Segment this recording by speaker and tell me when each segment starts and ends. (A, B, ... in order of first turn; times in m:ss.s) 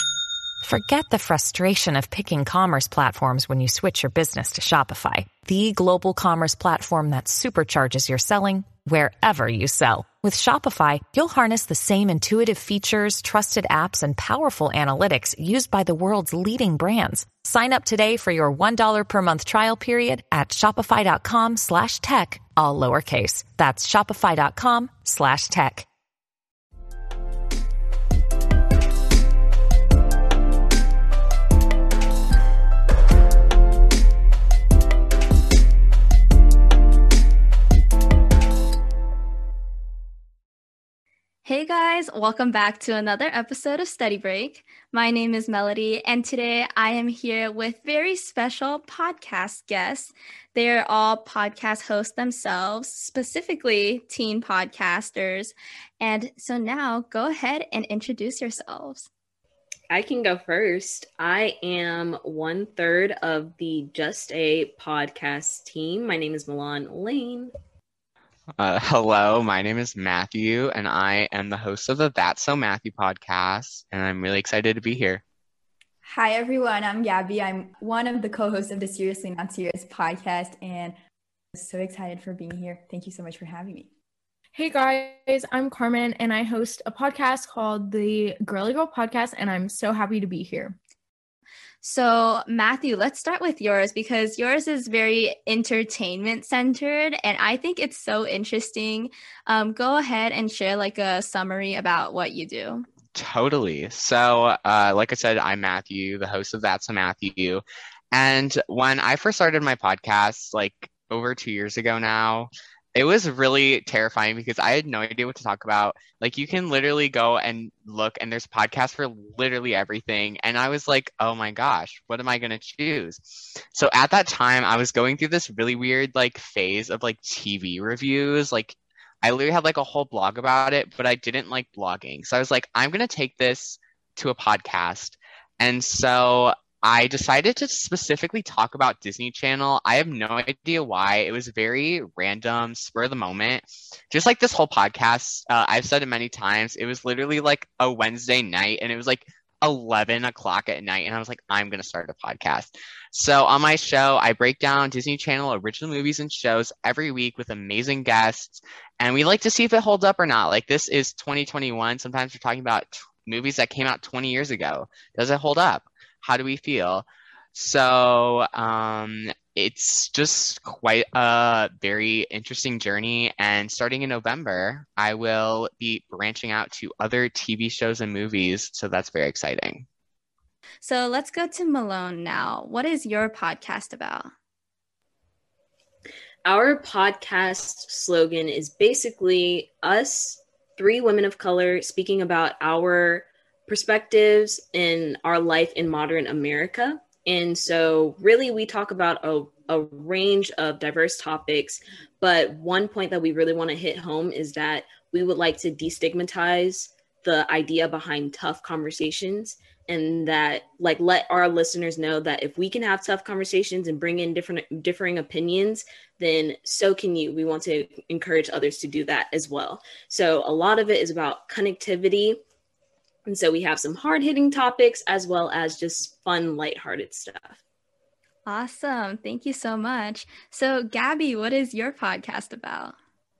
0:00.6-0:25.9 A
0:41.4-0:59.1 B
0:59.9-1:07.5 C
1:08.6-1:15.2 D
1:16.0-1:21.0 E
1:21.5-1:23.9 E
1:24.5-1:30.8 F
1:31.8-1:42.8 B
1:43.1-2:59.8 D
3:00.8-3:04.3 B
3:06.4-3:42.4 C
3:43.2-3:47.6 C
3:48.4-3:53.0 B